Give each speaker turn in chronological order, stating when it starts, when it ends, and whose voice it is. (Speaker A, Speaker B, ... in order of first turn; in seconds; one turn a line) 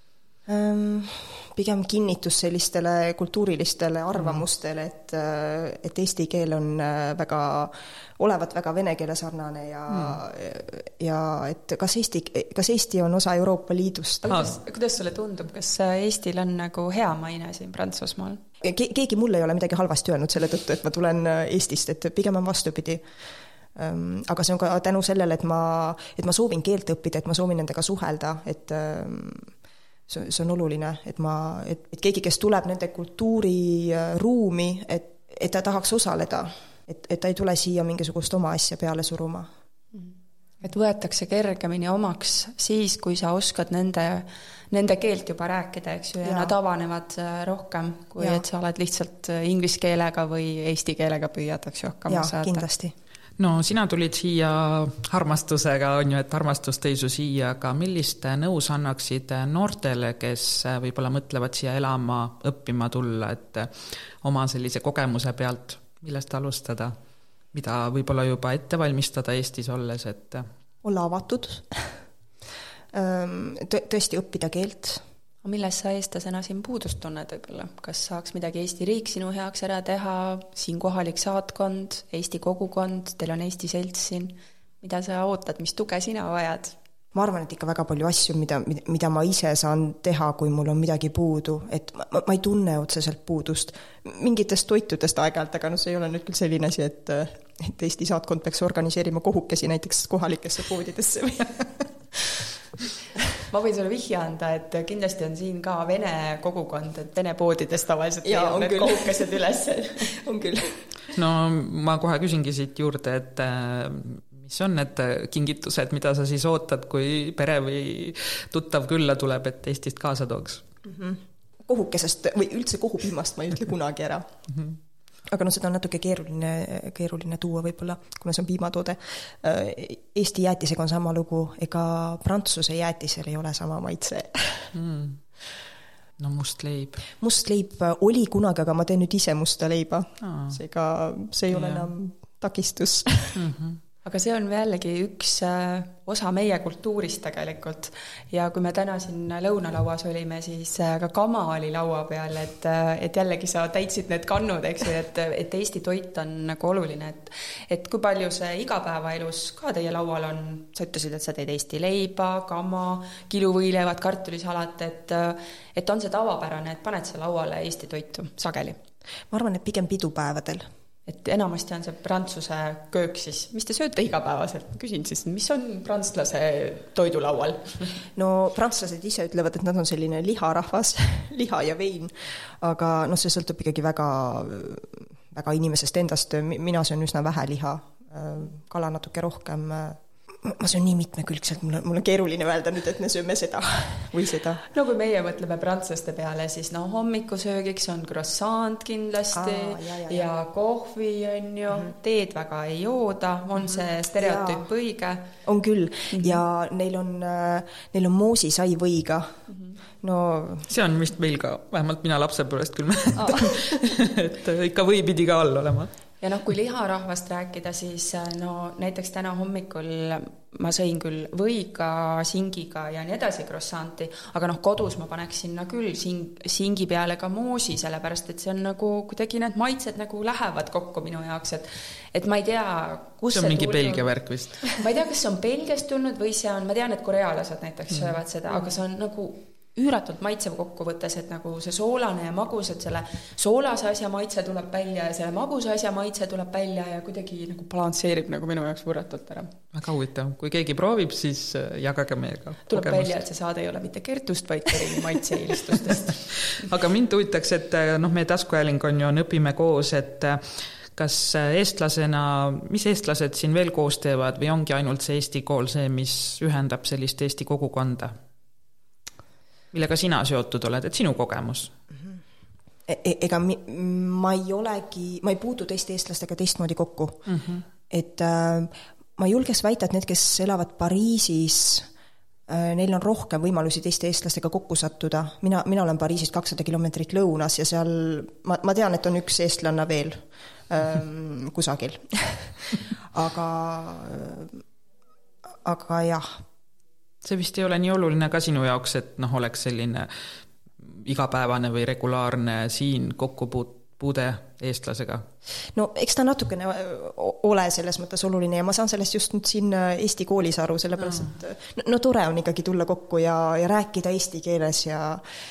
Speaker A: 0.5-14.5
Speaker B: 4.2-4.4
Speaker B: 9.9-10.2
Speaker C: 14.2-18.4
Speaker A: 18.6-23.0
Speaker A: 23.8-29.5
Speaker A: 30.1-39.5
Speaker C: 39.9-52.6
Speaker A: 46.2-46.5
Speaker A: 48.2-48.4
Speaker A: 52.1-52.9
Speaker B: 53.4-66.9
Speaker B: 67.5-70.5
Speaker A: 70.8-72.0
Speaker A: 72.9-75.0
Speaker C: 75.4-86.8
Speaker A: 87.1-102.4
Speaker C: 103.5-110.1
Speaker A: 108.2-109.3
Speaker A: 110.1-110.8
Speaker B: 111.1-120.6
Speaker A: 120.8-124.3
Speaker A: 125.3-134.7
Speaker B: 134.7-135.2
Speaker B: 136.2-137.1
Speaker A: 137.2-143.4
Speaker B: 140.2-140.6
Speaker B: 141.5-141.9
Speaker B: 143.3-143.8
Speaker C: 144.0-168.8
Speaker A: 169.3-170.7
Speaker C: 171.1-177.9
Speaker A: 178.2-194.6
Speaker C: 194.7-205.3
Speaker A: 199.3-200.3
Speaker A: 204.2-204.7
Speaker A: 205.4-209.4
Speaker C: 206.1-206.4
Speaker C: 209.5-209.8
Speaker A: 210.0-210.7
Speaker B: 210.7-215.9
Speaker C: 216.2-234.1
Speaker B: 233.3-234.8
Speaker C: 234.7-249.5
Speaker B: 249.7-253.1
Speaker C: 252.7-256.6
Speaker B: 256.6-268.1
Speaker B: 269.7-271.7
Speaker A: 272.9-277.2
Speaker B: 277.3-277.6
Speaker A: 277.9-281.9
Speaker A: 282.5-294.6
Speaker A: 295.5-296.4
Speaker B: 297.2-300.1
Speaker B: 300.8-305.2
Speaker A: 305.7-315.2